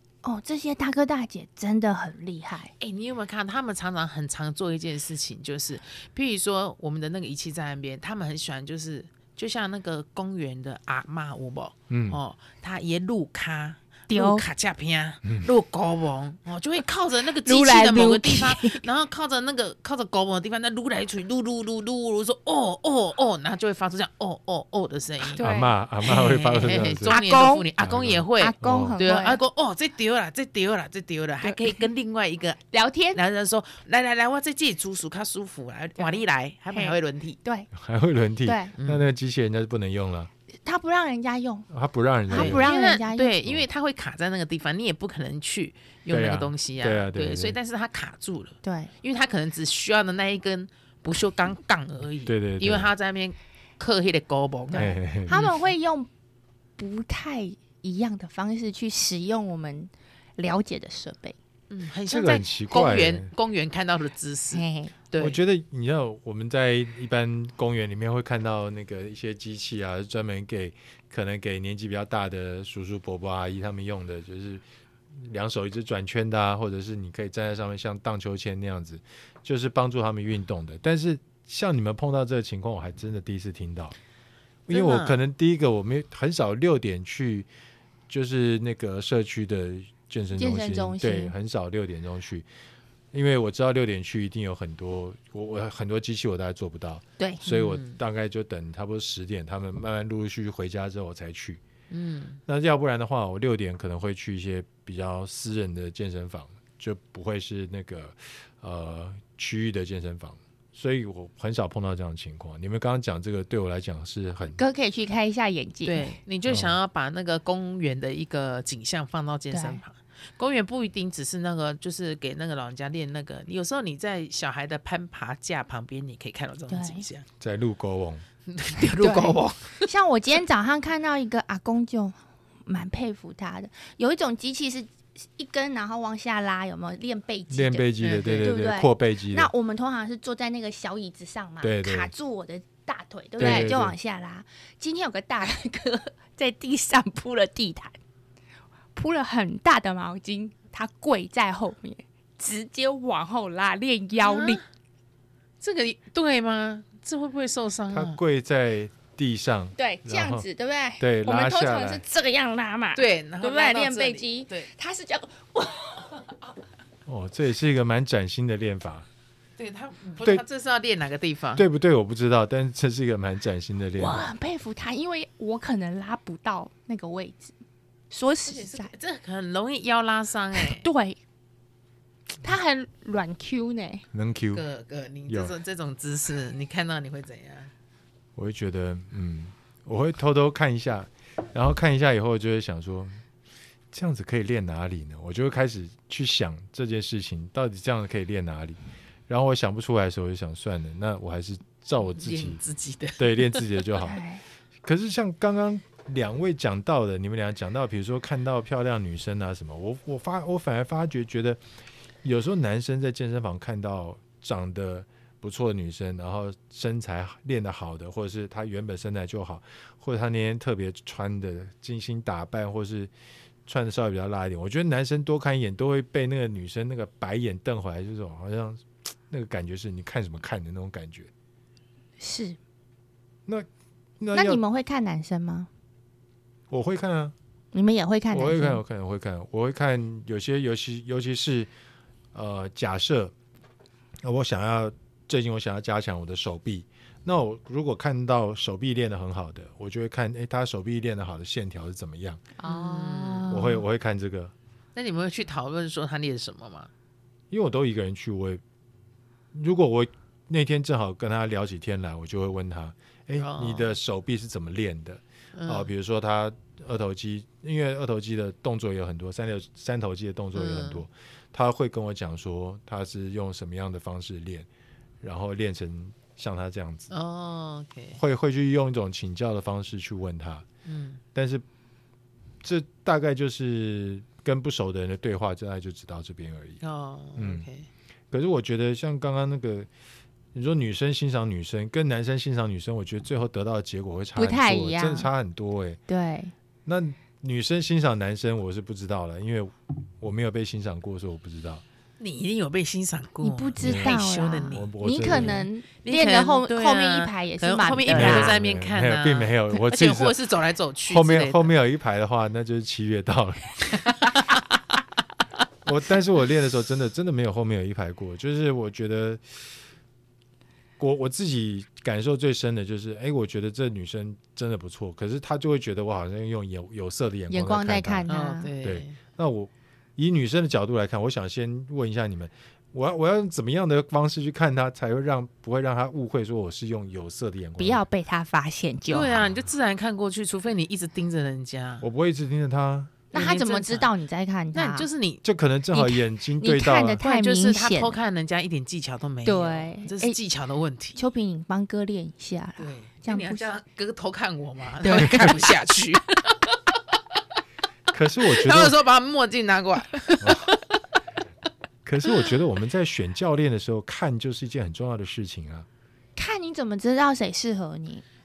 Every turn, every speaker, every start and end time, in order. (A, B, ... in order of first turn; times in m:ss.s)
0:00.2-0:02.7 A
0:02.8-0:25.4 B
0:11.9-0:12.2 C
0:14.1-0:14.4 A
0:17.4-0:18.8 A
0:25.4-0:25.8 A
0:25.4-0:27.2 C
0:26.0-0:37.4 B
0:27.0-0:27.7 A
0:27.8-0:29.0 C
0:28.4-0:29.4 A
0:31.4-0:31.8 A
0:32.7-0:33.2 A
0:36.7-0:37.7 A
0:37.7-0:40.3 C
0:38.4-0:38.7 A
0:38.8-0:39.0 B
0:40.6-0:41.7 A
0:41.7-0:42.7 C
0:42.3-0:43.3 A
0:42.3-0:55.6 B
0:46.1-0:47.6 C
0:48.6-0:48.9 A
0:52.2-0:52.9 C
0:54.7-0:56.1 A
0:54.7-0:55.4 C
0:56.8-1:01.4 A
1:01.7-1:05.4 B
1:02.1-1:03.3 C
1:04.5-1:04.9 A
1:05.2-1:24.0 C
1:24.7-1:27.5 C
1:24.7-1:25.2 B
1:28.1-1:32.4 C
1:30.4-1:31.3 A
1:33.1-1:41.6 C
1:37.2-1:37.4 A
1:37.5-1:38.0 B
1:41.9-1:42.4 B
1:42.5-1:54.6 C
1:54.6-1:56.2 A
1:55.8-2:07.2 B
1:56.5-1:56.8 C
1:59.5-1:59.8 A
2:06.7-2:07.0 A
2:07.4-2:08.2 C
2:08.5-2:09.9 B
2:09.0-2:17.9 A
2:17.5-2:19.5 C
2:18.0-2:18.5 B
2:18.4-2:28.0 A
2:21.6-2:22.1 C
2:23.4-2:23.7 B
2:23.4-2:23.9 C
2:28.9-2:34.6 A
2:34.2-2:34.6 B
2:35.6-2:38.2 B
2:37.9-2:40.4 C
2:39.8-2:46.4 A
2:41.0-2:42.0 C
2:42.9-2:44.7 B
2:47.0-2:49.1 C
2:49.6-2:51.6 B
2:51.6-2:54.3 C
2:54.0-2:57.6 A
2:58.1-2:58.9 A
2:58.4-3:00.8 B
3:00.5-3:01.2 A
3:02.4-3:04.0 A
3:04.1-3:04.6 C
3:04.5-3:07.7 B
3:05.3-3:05.5 C
3:08.4-3:13.2 C
3:13.9-3:22.6 C
3:22.1-3:23.8 B
3:23.2-3:24.2 C
3:24.0-3:24.4 A
3:24.8-3:31.6 C
3:32.2-3:43.1 C
3:43.6-3:51.3 C
3:52.2-3:52.6 A
3:54.2-3:54.6 C
3:54.3-3:55.7 A
3:56.7-3:57.3 C
3:57.7-3:58.8 A
3:58.3-4:01.7 C
4:02.3-4:03.3 C
4:04.2-4:12.4 C
4:12.6-4:13.8 A
4:12.6-4:13.6 B
4:13.5-4:14.5 C
4:14.9-4:16.9 B
4:17.5-4:18.6 C
4:19.5-4:34.7 C
4:23.4-4:24.0 B
4:25.5-4:25.9 B
4:30.5-4:31.0 B
4:35.2-4:37.1 C
4:37.1-4:38.2 B
4:38.1-4:40.6 C
4:40.8-4:41.2 B
4:41.3-4:41.6 C
4:42.6-4:46.8 C
4:46.8-4:47.9 B
4:47.4-4:47.7 C
4:48.3-4:49.9 C
4:50.5-4:56.0 C
4:54.4-4:55.3 A
4:56.1-4:56.5 A
4:56.8-5:01.8 C
5:02.2-5:11.7 B
5:03.4-5:08.6 A
5:03.8-5:04.2 C
5:04.7-5:05.6 C
5:08.1-5:10.4 C
5:11.1-5:14.3 C
5:14.0-5:14.6 B
5:15.8-5:19.8 C
5:21.0-5:28.3 C
5:27.5-5:28.7 A
5:28.3-5:29.2 B
5:28.8-5:38.0 C
5:37.8-5:39.5 A
5:39.1-5:42.0 B
5:42.0-5:43.2 C
5:43.3-5:45.1 A
5:43.3-5:44.1 B
5:44.7-5:45.4 B
5:45.4-5:47.2 C
5:45.9-5:48.2 A
5:47.2-5:51.2 B
5:49.4-5:50.4 A
5:51.2-5:53.7 A
5:52.8-5:56.8 B
5:55.0-5:55.6 A
5:58.1-5:59.0 C
5:58.4-6:01.0 B
6:00.4-6:00.7 C
6:02.0-6:05.9 C
6:06.4-6:08.2 A